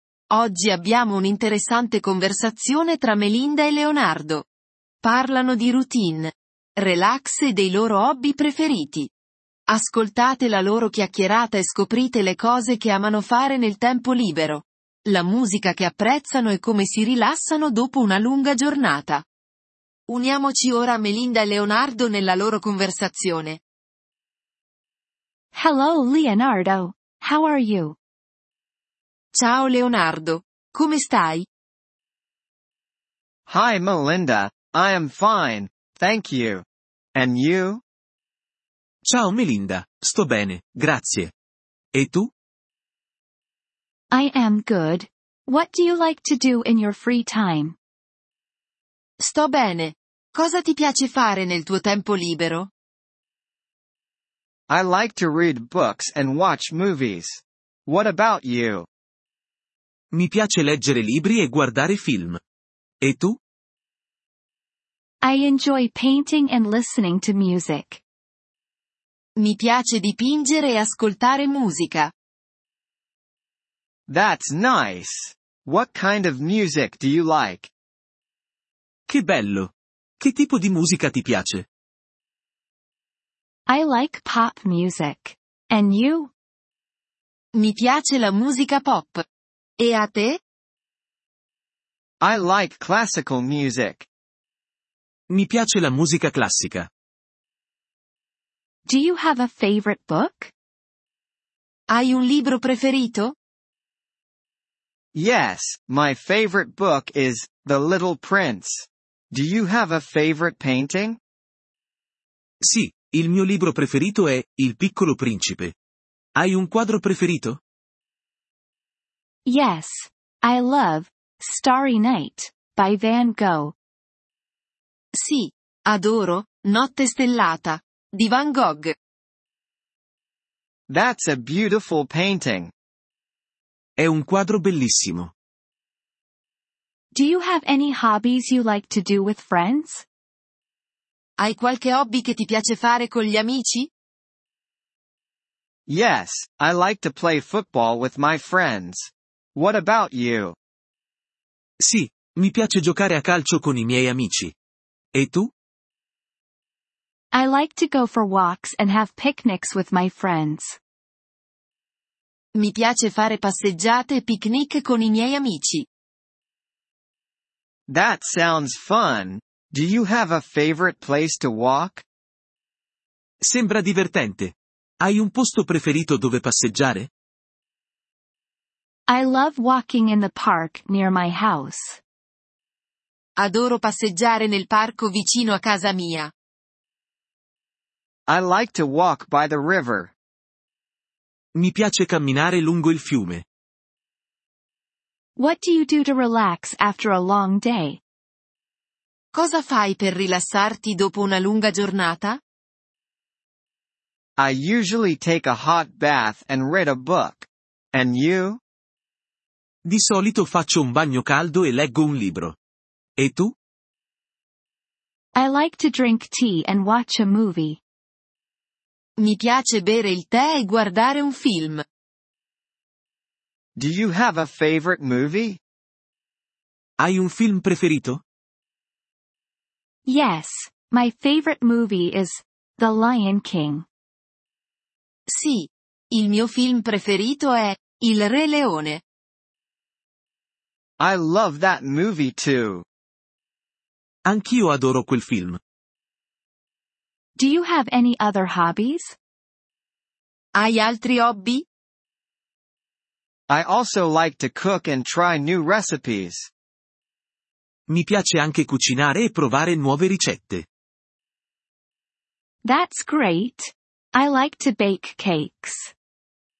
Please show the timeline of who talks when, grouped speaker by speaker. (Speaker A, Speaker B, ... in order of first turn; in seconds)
Speaker A: 0.3-4.5, 5.0-9.1, 9.7-19.2, 20.1-23.6, 29.3-31.5, 49.2-52.7, 69.4-72.1, 87.5-89.2, 89.8-90.4, 101.9-103.3, 125.2-128.9, 141.4-143.9, 162.6-165.9, 183.4-186.3, 199.3-202.4, 219.2-221.8, 235.3-239.0, 250.6-251.7
Speaker B: 25.6-28.0, 44.1-47.8, 65.2-68.0, 83.7-86.3, 98.9-100.5, 119.5-123.8, 137.1-140.1, 157.3-160.8, 179.1-182.0, 195.4-198.0, 215.4-217.8, 230.1-233.9, 247.4-249.2, 262.6-265.9
Speaker C: 33.5-37.8, 54.7-58.9, 74.1-77.7, 92.2-94.1, 105.1-111.2, 130.9-132.7, 145.9-150.6, 167.9-172.1, 188.3-190.1, 204.4-208.6, 223.8-225.6, 241.0-242.8, 253.5-256.5
Speaker D: 39.1-41.3, 41.9-42.3, 60.1-62.4, 63.0-63.4, 79.1-81.7, 95.3-96.9, 112.6-115.7, 116.4-117.6, 134.0-135.3, 151.8-154.6, 155.1-155.5, 173.4-177.1, 191.6-193.4, 209.8-212.6, 213.2-213.6, 227.0-228.2, 244.3-245.6, 257.9-260.7